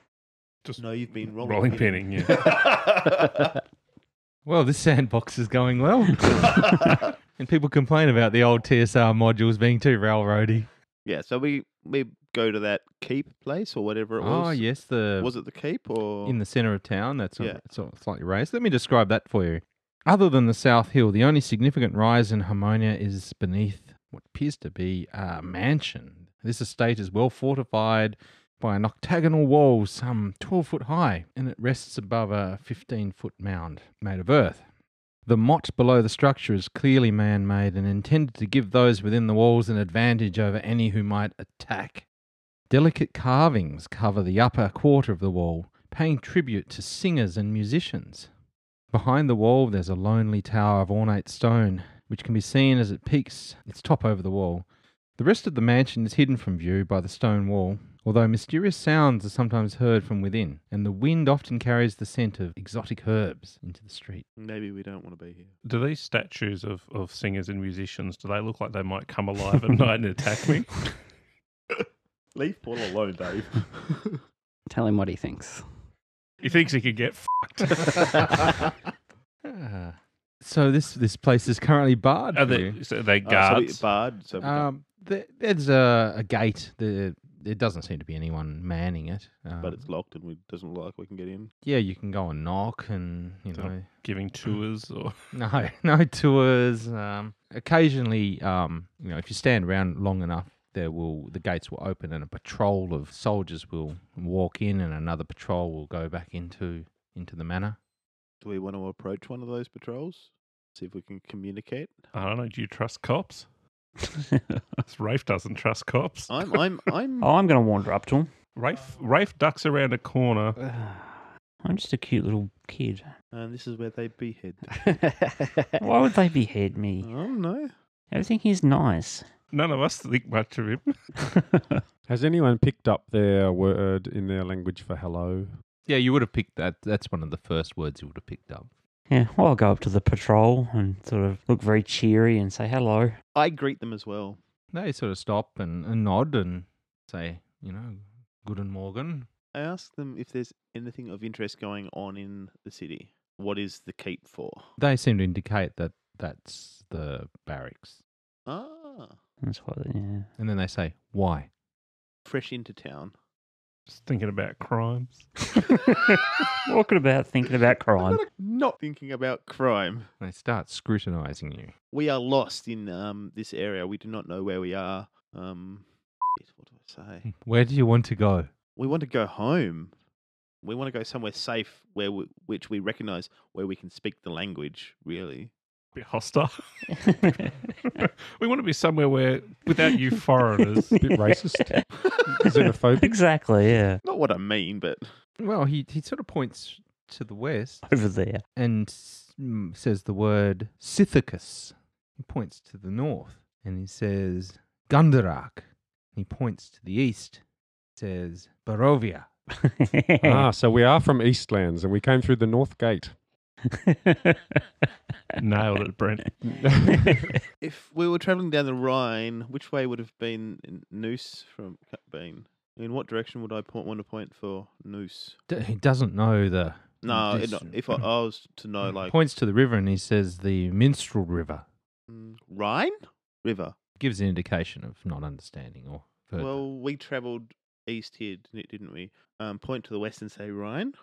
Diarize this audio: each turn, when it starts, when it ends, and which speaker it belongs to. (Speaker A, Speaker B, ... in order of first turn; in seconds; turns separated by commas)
Speaker A: 0.7-2.4, Speaker B: 0.8-3.4, Speaker C: 4.5-10.7, Speaker B: 11.1-14.6, Speaker C: 14.2-15.3, Speaker B: 15.2-16.4, Speaker C: 16.2-34.6, Speaker C: 35.3-42.1, Speaker C: 42.7-48.3, Speaker C: 48.9-54.7, Speaker C: 55.2-64.2, Speaker B: 64.4-65.5, Speaker A: 65.6-70.8, Speaker B: 72.3-74.2, Speaker D: 74.7-75.7, Speaker A: 76.4-78.7, Speaker C: 79.4-82.8, Speaker A: 82.3-83.8, Speaker B: 83.2-84.7, Speaker C: 84.4-89.8, Speaker B: 89.6-91.5, Speaker C: 91.6-93.8, Speaker A: 93.5-95.2, Speaker C: 95.3-107.8, Speaker B: 108.4-111.9, Speaker A: 112.1-113.5, Speaker E: 114.3-114.6, Speaker A: 114.9-116.6, Speaker B: 116.3-117.3, Speaker E: 117.2-118.3, Speaker A: 118.6-120.6, Speaker D: 120.6-121.3, Speaker E: 121.6-123.1, Speaker B: 123.3-124.8, Speaker D: 124.8-125.8, Speaker E: 125.8-127.1, Speaker B: 127.0-127.7, Speaker E: 128.1-129.3, Speaker A: 129.5-131.0, Speaker E: 131.2-131.8, Speaker F: 132.1-135.6, Speaker C: 135.9-138.7, Speaker E: 139.1-143.2, Speaker B: 143.3-144.4, Speaker C: 144.7-149.3, Speaker B: 149.5-154.7, Speaker C: 154.8-158.0, Speaker B: 158.5-159.2, Speaker E: 159.4-160.3, Speaker C: 160.4-161.5, Speaker B: 162.3-163.1, Speaker A: 163.9-165.5, Speaker E: 165.9-168.2, Speaker B: 168.0-170.1, Speaker C: 170.2-171.7, Speaker B: 171.9-177.3, Speaker C: 177.3-178.5, Speaker B: 178.8-179.9, Speaker B: 180.6-185.5, Speaker A: 185.9-186.9, Speaker E: 187.1-187.5, Speaker A: 187.8-191.0, Speaker F: 191.0-193.2, Speaker E: 192.4-194.0, Speaker B: 194.0-195.0, Speaker C: 195.4-197.8, Speaker E: 197.9-198.4, Speaker C: 198.6-207.4, Speaker C: 208.0-209.3, Speaker E: 209.6-210.5, Speaker F: 210.2-213.2, Speaker E: 213.8-214.6, Speaker A: 215.4-216.4, Speaker F: 216.4-217.4, Speaker E: 217.1-217.4, Speaker B: 217.6-225.4, Speaker C: 225.5-228.0, Speaker B: 227.0-229.1, Speaker C: 229.0-231.7, Speaker B: 232.1-233.8, Speaker C: 234.0-236.6, Speaker B: 236.4-240.9